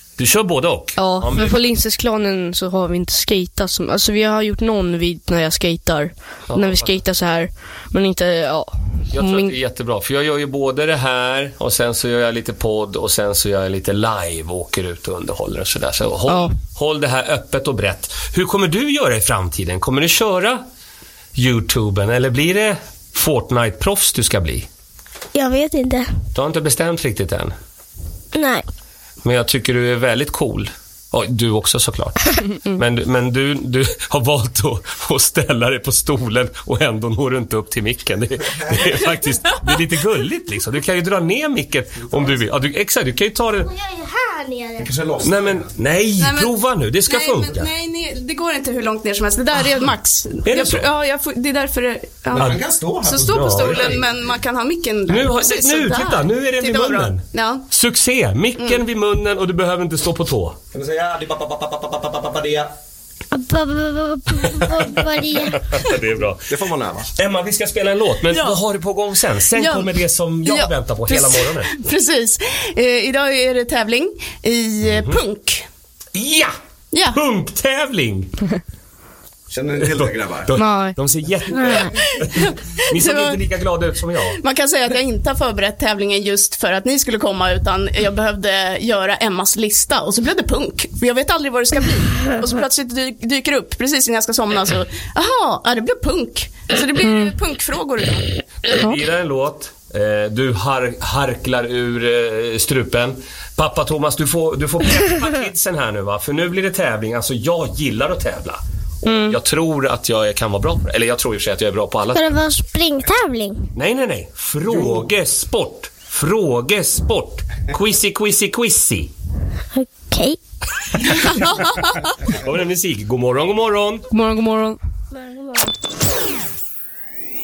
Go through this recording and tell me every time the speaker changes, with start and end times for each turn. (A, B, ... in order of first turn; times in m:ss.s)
0:00.2-0:01.6 A
0:01.0-0:09.5 B
0:06.5-0:06.9 A
0:09.1-0:20.6 A
0:16.3-0:16.6 B
0:21.3-0:24.7 A
0:25.3-0:26.1 C
0:26.3-0:27.5 A
0:28.3-0:28.6 C
0:29.2-0:43.7 A
0:43.7-0:44.9 C
0:44.8-0:45.7 D
0:45.2-0:47.7 A
0:46.2-0:46.5 E
0:47.1-0:57.6 E
0:50.4-0:50.9 A
0:52.3-0:54.0 D
0:53.1-0:54.0 A
0:55.1-1:00.6 A
1:00.7-1:02.7 D
1:03.3-1:05.8 C
1:05.6-1:06.5 A
1:06.5-1:07.1 D
1:07.2-1:11.7 A
1:08.3-1:08.6 E
1:09.5-1:09.9 E
1:10.4-1:15.6 E
1:14.9-1:15.2 A
1:16.1-1:16.5 A
1:16.9-1:17.2 E
1:17.1-1:18.5 A
1:19.5-1:20.5 D
1:19.9-1:24.4 A
1:20.6-1:21.0 B
1:21.9-1:23.4 E
1:24.3-1:38.3 E
1:38.6-1:52.4 A
1:49.0-1:49.3 B
1:52.1-1:53.7 C
1:53.7-1:59.1 A
1:54.7-1:55.0 D
1:59.7-2:00.4 C
2:01.1-2:04.1 A
2:01.3-2:02.0 E
2:04.1-2:04.8 B
2:05.1-2:05.7 C